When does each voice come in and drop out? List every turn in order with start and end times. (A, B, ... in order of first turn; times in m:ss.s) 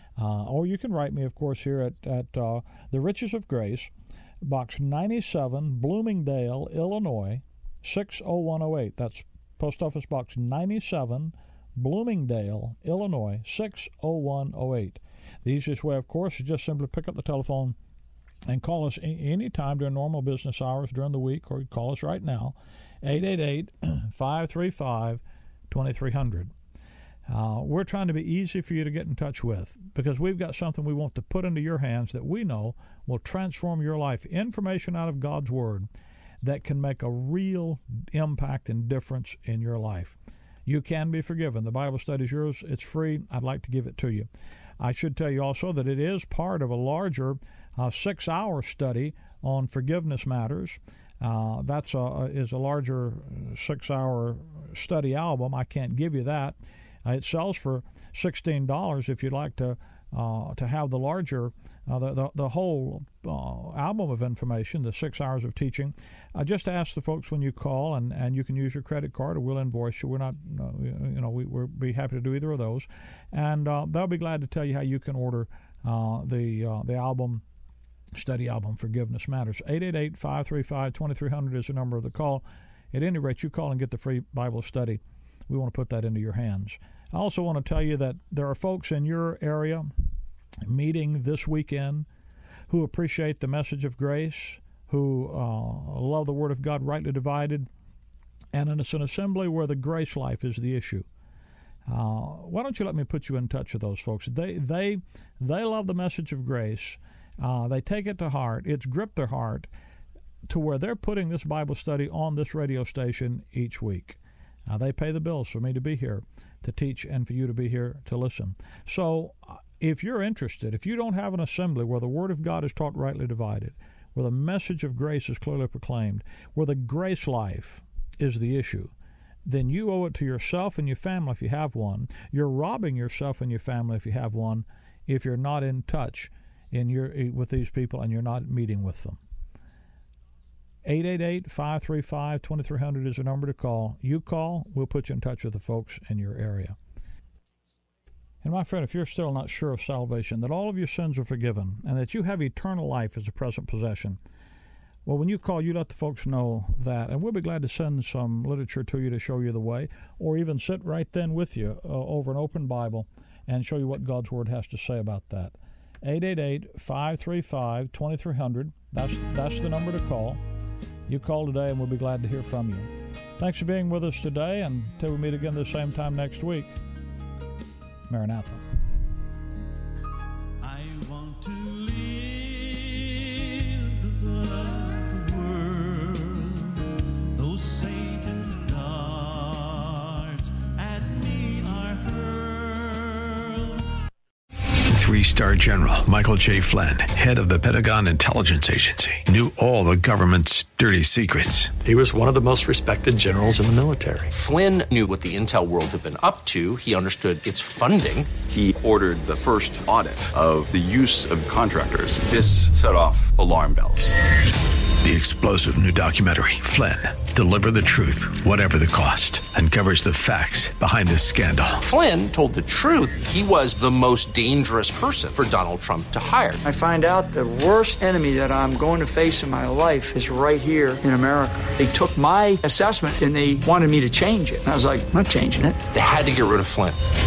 0:00.2-0:17.8 A
0:18.5-0:26.5 A
0:27.3-0:35.9 A
0:36.4-0:44.3 A
0:44.8-1:17.4 A
1:18.1-1:29.9 A
1:30.6-1:32.1 A
1:32.7-1:37.7 A
1:38.5-1:41.1 A
1:41.9-1:49.7 A
1:50.5-2:08.9 A
2:09.4-2:19.2 A
2:20.8-2:26.8 A
2:28.4-2:34.2 A
2:35.0-2:50.4 A
2:51.1-2:56.7 A
2:58.1-2:58.6 A
3:07.6-3:08.0 A
3:14.9-3:21.7 B
3:21.8-3:24.3 C
3:24.3-3:28.3 D
3:28.5-3:34.1 E
3:35.0-3:41.8 B
3:41.8-3:46.6 D
3:46.6-3:55.8 F
3:55.9-3:57.0 D